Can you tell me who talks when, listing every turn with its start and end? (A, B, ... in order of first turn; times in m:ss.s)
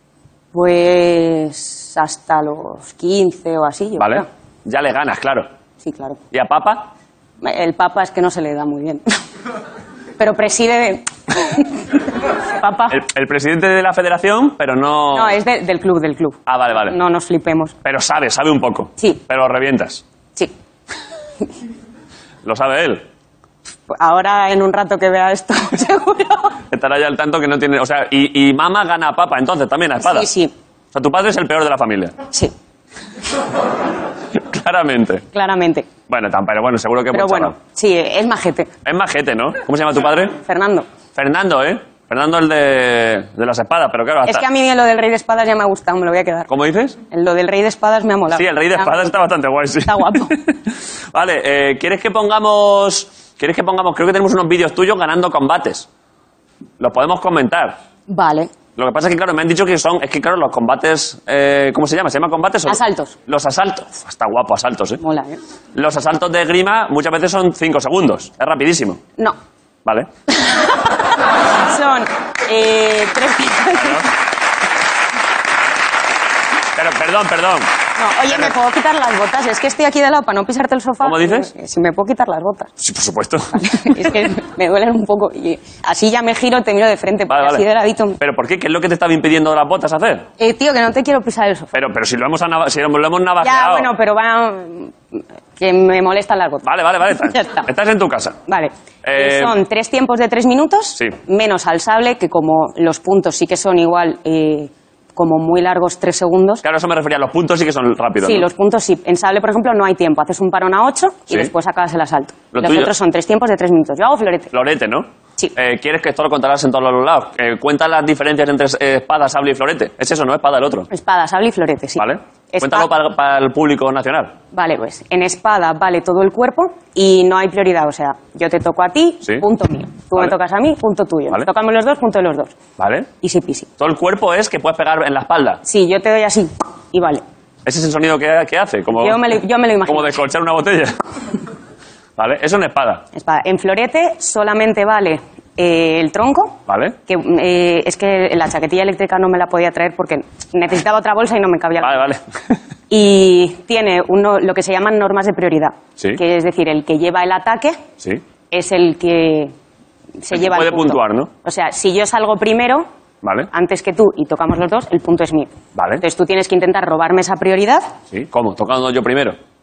0:00.5-0:04.3 A
0:04.0-0:05.5 B
0:05.8-0:06.2 A
0:06.3-0:06.9 B
0:07.4-0:09.0 A
0:10.2-0:11.7 A
0:12.6-0:13.0 A
0:12.9-0:15.4 B
0:15.1-0:17.7 A
0:16.5-0:17.0 B
0:17.8-0:20.0 B
0:22.4-0:23.0 B
0:23.9-0:26.6 A
0:26.7-0:30.3 B
0:30.0-0:30.5 A
0:30.9-0:32.1 B
0:34.3-0:35.2 B
0:35.3-0:35.9 A
0:36.1-0:37.5 B
0:37.1-0:38.7 A
0:38.8-0:40.4 B
0:40.4-0:40.8 A
0:41.1-0:44.4 B
0:44.2-0:46.5 A
0:46.5-0:47.0 B
0:47.1-0:49.1 A
0:48.3-0:50.5 B
0:49.8-0:50.4 A
0:51.1-0:55.8 B
0:56.8-0:57.8 B
0:58.1-0:58.5 A
0:58.8-1:05.0 B
1:02.7-1:03.1 A
1:05.0-1:05.4 A
1:05.7-1:09.0 B
1:10.4-1:10.8 A
1:11.6-1:14.1 A
1:13.8-1:14.1 B
1:16.8-1:17.7 B
1:18.0-1:22.7 A
1:21.0-1:21.5 B
1:22.8-1:24.1 B
1:23.5-1:28.2 A
1:27.3-1:27.6 B
1:28.2-1:30.3 B
1:30.4-1:31.7 A
1:31.7-1:33.9 B
1:33.4-1:36.6 A
1:36.6-1:38.4 B
1:37.2-1:37.7 A
1:38.5-1:46.6 A
1:39.0-1:39.5 B
1:46.6-1:48.5 B
1:48.2-1:54.5 A
1:52.5-1:52.9 B
1:54.5-2:00.9 B
2:00.9-2:02.9 A
2:02.0-2:04.4 B
2:04.5-2:12.5 A
2:12.8-2:13.1 B
2:13.2-2:13.7 A
2:13.8-2:15.6 B
2:15.6-2:17.2 A
2:17.6-2:21.0 B
2:19.0-2:20.2 A
2:22.2-2:23.0 B
2:23.1-2:32.0 A
2:26.7-2:27.0 B
2:31.8-2:32.2 B
2:32.9-2:37.8 A
2:38.5-2:39.5 A
2:40.2-2:42.9 A
2:40.3-2:41.3 B
2:43.2-2:43.5 B
2:43.5-2:47.9 A
2:45.7-2:46.0 B
2:48.1-2:49.4 B